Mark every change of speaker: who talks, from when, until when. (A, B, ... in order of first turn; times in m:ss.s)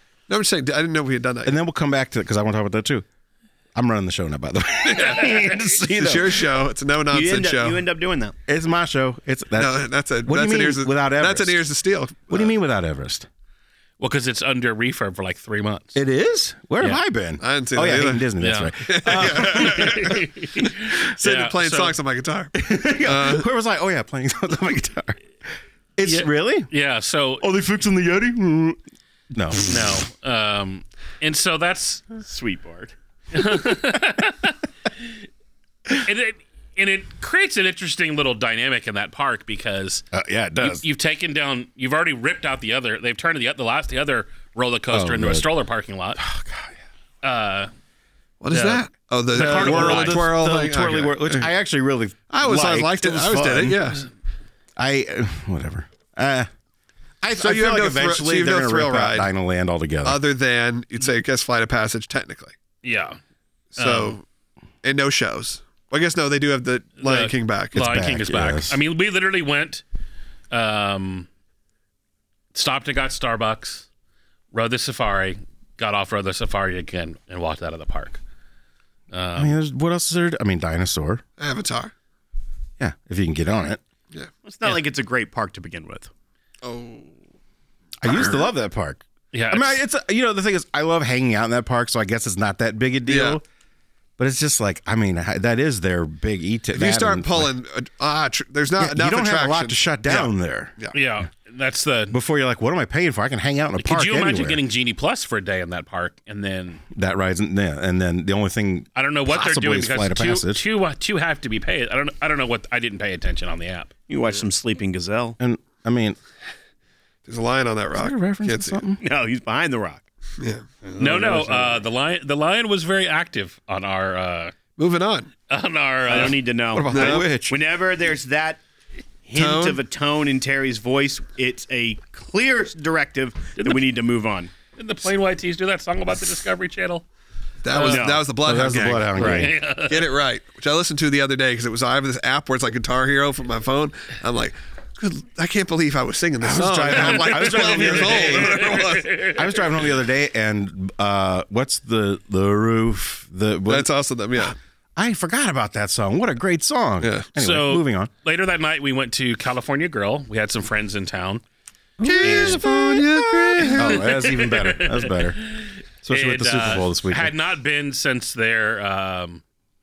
0:00.3-0:01.6 A
0:01.4-0:03.0 B
0:03.8-0:06.5 B
0:04.9-0:05.3 A
0:05.0-0:05.7 C
0:05.9-0:07.9 A
0:07.1-0:08.4 D
0:08.5-0:11.6 B
0:09.6-0:12.5 A
0:12.3-0:13.3 B
0:14.0-0:16.0 C
0:16.0-0:20.2 B
0:17.4-0:18.3 A
0:18.4-0:22.0 C
0:18.8-0:20.3 A
0:21.0-0:23.5 A
0:22.6-0:25.2 B
0:26.0-0:26.7 B
0:26.0-0:27.4 C
0:27.4-0:28.8 B
0:29.3-0:29.9 B
0:29.6-0:32.0 C
0:32.2-0:32.9 D
0:33.3-0:35.2 C
0:36.0-0:40.0 C
0:40.1-0:40.8 B
0:40.6-0:46.2 C
0:44.9-0:45.5 B
0:46.2-0:46.8 B
0:47.2-0:47.7 C
0:48.4-0:51.5 A
0:48.5-0:50.2 C
0:49.4-0:54.0 B
0:52.3-0:54.1 A
0:54.8-0:56.5 B
0:57.2-1:00.2 B
0:57.4-0:59.3 A
1:00.0-1:02.5 A
1:02.8-1:03.2 C
1:03.8-1:04.2 A
1:03.8-1:04.2 C
1:04.8-1:07.8 A
1:07.0-1:09.8 C
1:07.7-1:08.8 B
1:10.5-1:11.3 C
1:12.5-1:13.9 C
1:14.5-1:18.2 C
1:19.1-1:19.6 C
1:19.4-1:21.2 B
1:21.4-1:21.9 A
1:22.8-1:23.8 B
1:24.4-1:26.1 D
1:26.6-1:27.1 A
1:28.0-1:33.4 B
1:28.0-1:28.4 A
1:29.3-1:29.8 C
1:33.1-1:33.4 A
1:34.2-1:37.5 B
1:36.7-1:41.0 A
1:38.8-1:40.8 B
1:40.9-1:42.2 C
1:42.1-1:44.6 B
1:43.8-1:46.8 C
1:46.9-1:50.6 B
1:49.0-1:53.9 C
1:54.1-1:55.4 D
1:55.4-1:56.2 B
1:57.3-1:58.8 A
1:57.9-1:59.0 B
1:59.0-2:00.0 D
2:00.4-2:00.7 A
2:00.8-2:01.8 D
2:01.0-2:04.5 C
2:04.8-2:05.3 A
2:05.5-2:06.4 C
2:06.1-2:08.6 D
2:06.7-2:07.3 A
2:06.9-2:07.6 B
2:09.3-2:14.5 D
2:09.4-2:09.8 A
2:14.8-2:17.0 C
2:17.6-2:29.2 A
2:17.7-2:18.1 C
2:17.8-2:18.2 D
2:18.4-2:19.5 B
2:19.2-2:19.5 D
2:19.2-2:20.1 C
2:26.4-2:33.9 B
2:26.9-2:29.7 C
2:33.7-2:34.6 A
2:35.0-2:38.1 B
2:37.0-2:37.3 A
2:37.4-2:41.4 C
2:42.0-2:45.4 B
2:42.0-2:44.0 A
2:42.2-2:42.8 C
2:43.6-2:49.4 C
2:46.0-2:47.3 B